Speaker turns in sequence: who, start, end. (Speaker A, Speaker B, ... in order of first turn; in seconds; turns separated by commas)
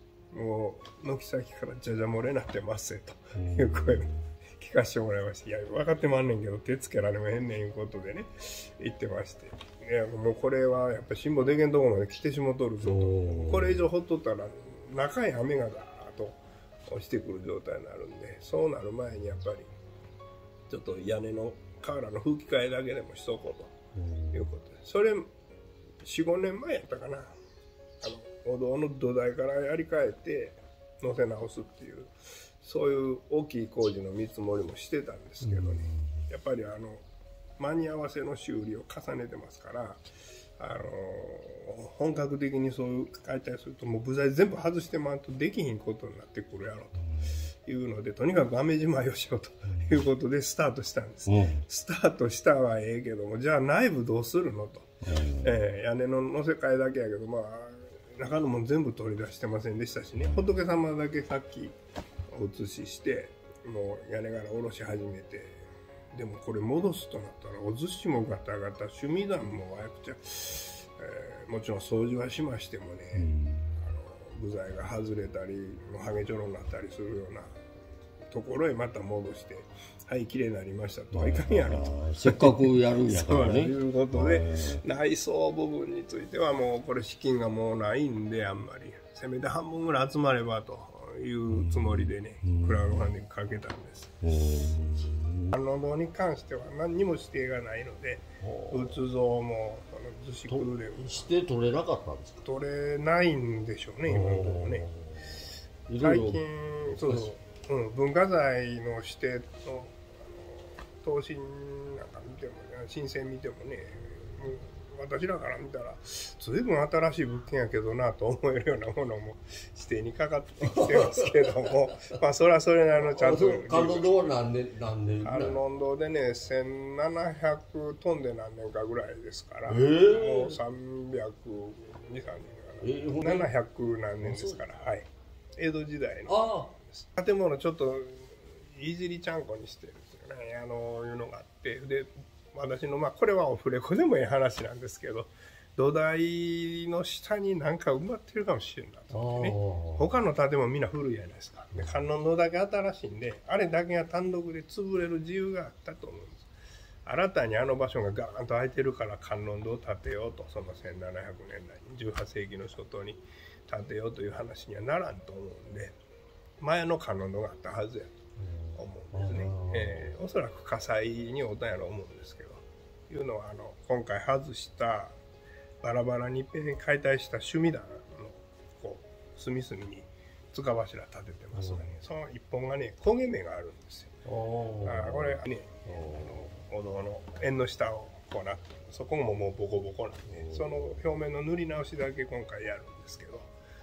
Speaker A: 0.3-19.7, Speaker B: 3.4-4.3, Speaker B: 12.8-13.9, Speaker A: 20.7-23.7, Speaker B: 24.0-24.6, Speaker A: 24.3-25.3, Speaker A: 26.0-27.3, Speaker A: 28.0-37.0, Speaker B: 35.4-36.3, Speaker A: 37.6-40.0, Speaker A: 40.6-47.0, Speaker A: 47.7-61.8, Speaker B: 49.7-50.0, Speaker B: 51.3-51.6, Speaker B: 55.0-55.6, Speaker B: 60.2-60.5, Speaker A: 62.3-73.3, Speaker B: 73.1-73.8, Speaker A: 73.8-77.5, Speaker A: 78.3-94.2, Speaker B: 81.1-84.8, Speaker B: 91.5-93.1, Speaker B: 94.2-95.6, Speaker A: 95.5-101.3, Speaker B: 98.4-99.0, Speaker B: 100.5-102.5, Speaker A: 102.4-104.9, Speaker B: 104.1-107.3, Speaker A: 106.0-124.2, Speaker B: 121.2-121.7, Speaker B: 123.0-125.6, Speaker A: 125.2-156.5, Speaker B: 129.7-130.6, Speaker B: 132.8-133.5, Speaker B: 134.2-134.6, Speaker B: 136.3-136.7, Speaker B: 149.1-150.1, Speaker A: 157.1-166.0, Speaker A: 166.6-168.1, Speaker B: 168.4-170.2, Speaker A: 168.8-175.2, Speaker A: 175.8-184.1, Speaker B: 181.5-181.9, Speaker B: 184.3-186.6, Speaker A: 184.8-193.5, Speaker B: 190.3-191.1